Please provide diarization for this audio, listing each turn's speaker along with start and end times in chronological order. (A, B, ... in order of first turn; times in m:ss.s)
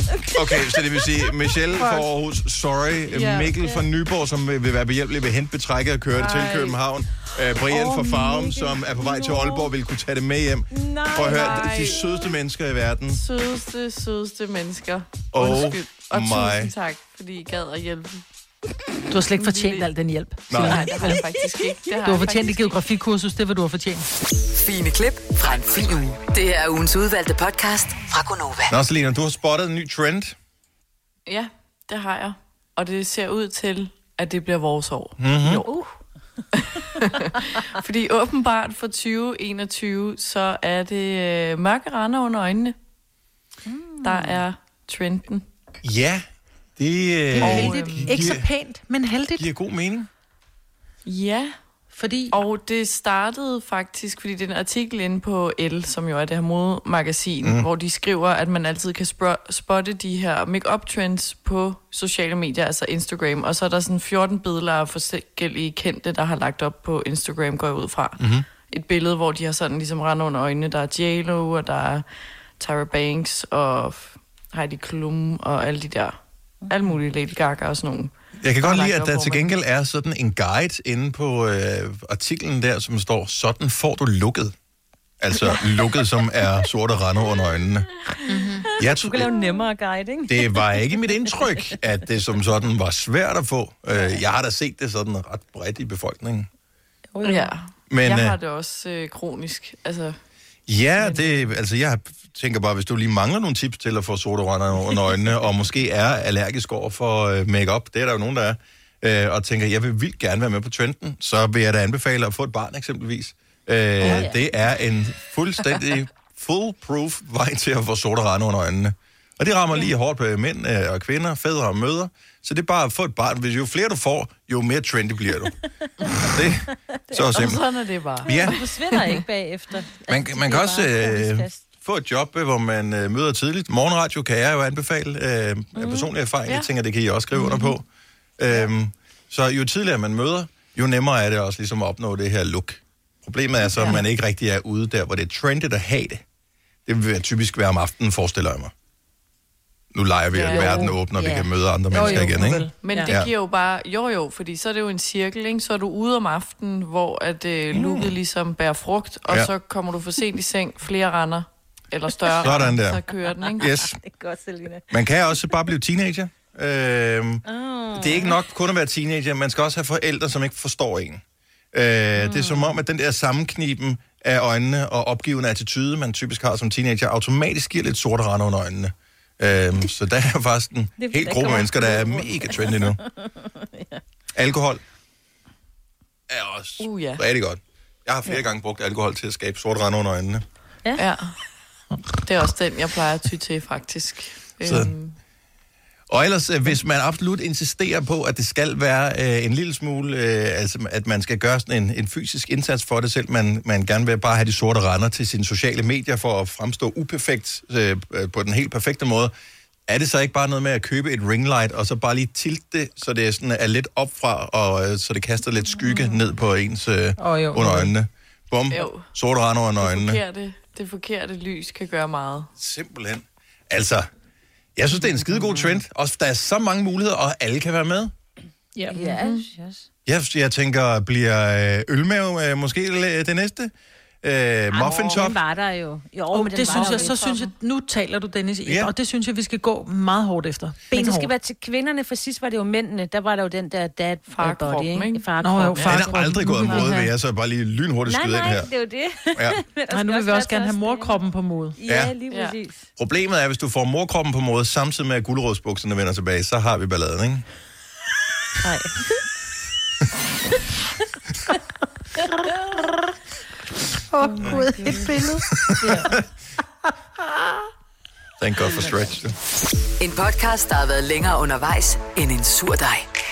0:00.3-0:00.8 A
0:00.3-0:13.2 B
0:03.1-0:03.5 C
0:03.6-0:03.8 A
0:06.1-0:06.8 C
0:07.7-0:09.7 A
0:10.7-0:12.3 A
0:11.2-0:12.0 C
0:13.1-0:18.2 C
0:15.3-0:16.7 B
0:19.1-0:21.3 D
0:19.4-0:19.9 C
0:20.5-0:20.9 B
0:20.5-0:22.8 C
0:22.0-0:24.0 D
0:24.5-0:28.7 E
0:28.7-0:30.4 B
0:31.3-0:35.7 C
0:35.2-0:35.6 B
0:36.5-0:42.7 C
0:43.7-0:44.4 A
0:44.0-0:45.4 C
0:45.8-0:46.2 B
0:46.8-0:48.5 B
0:47.3-0:49.5 D
0:47.4-0:48.3 C
0:49.4-0:50.1 B
0:51.0-0:51.5 C
0:51.9-0:52.4 D
0:52.3-1:12.0 C
1:08.2-1:08.5 B
1:12.6-1:16.2 C
1:16.7-1:19.5 C
1:18.4-1:24.5 B
1:25.2-1:27.9 B
1:25.5-1:25.9 A
1:28.3-1:28.6 D
1:28.6-1:31.7 A
1:28.8-1:29.3 B
1:30.3-1:36.5 B
1:37.1-1:37.5 A
1:37.2-1:40.2 C
1:37.9-1:38.3 B
1:40.7-2:05.6 B
1:41.0-1:41.4 C
1:54.0-1:54.4 A
2:06.2-2:07.6 B
2:07.1-2:07.4 A
2:07.3-2:09.2 C
2:08.2-2:08.5 B
2:08.2-2:11.6 A
2:10.1-2:17.8 B
2:15.8-2:16.1 A
2:18.4-2:26.2 B
2:26.8-2:28.7 B
2:29.9-2:33.3 B
2:30.3-2:30.9 C
2:30.5-2:32.3 A
2:30.6-2:31.0 D
2:31.9-2:33.1 D
2:32.8-2:43.7 C
2:37.7-2:38.1 B
2:42.4-2:43.0 B
2:43.1-2:44.9 A
2:43.6-2:44.0 B
2:44.9-2:51.2 B
2:47.4-2:48.4 A
2:51.7-3:03.0 B
2:52.2-2:52.8 A
3:01.0-3:04.0 A
3:04.3-3:04.8 B
3:06.3-3:10.4 B
3:06.8-3:07.2 C
3:11.0-3:11.3 C
3:12.2-3:15.2 C
3:14.6-3:14.9 B
3:16.1-3:29.3 B
3:29.9-3:40.2 B
3:35.8-3:36.1 A
3:37.2-3:37.9 D
3:38.7-3:39.1 C
3:39.8-3:42.5 C
3:42.6-3:44.1 B
3:44.8-3:48.1 B
3:48.8-3:49.0 D
3:48.9-3:49.8 A
3:49.1-3:49.5 C
3:50.0-3:55.4 B
3:54.7-3:57.2 A
3:56.3-4:01.3 D
3:56.7-3:57.5 C
3:58.6-3:58.9 B
4:00.9-4:07.0 A
4:04.3-4:05.9 C
4:05.4-4:07.1 D
4:05.8-4:08.7 B
4:08.0-4:11.2 A
4:09.4-4:09.6 B
4:09.9-4:11.8 D
4:11.8-4:12.8 A
4:11.9-4:12.1 B
4:12.3-4:12.6 C
4:13.0-4:17.4 B
4:18.6-4:19.2 A
4:22.3-4:22.9 A
4:24.1-4:26.0 D
4:24.2-4:26.2 A
4:25.5-4:26.2 B
4:28.4-4:29.4 B
4:28.6-4:28.9 A
4:30.0-4:33.0 E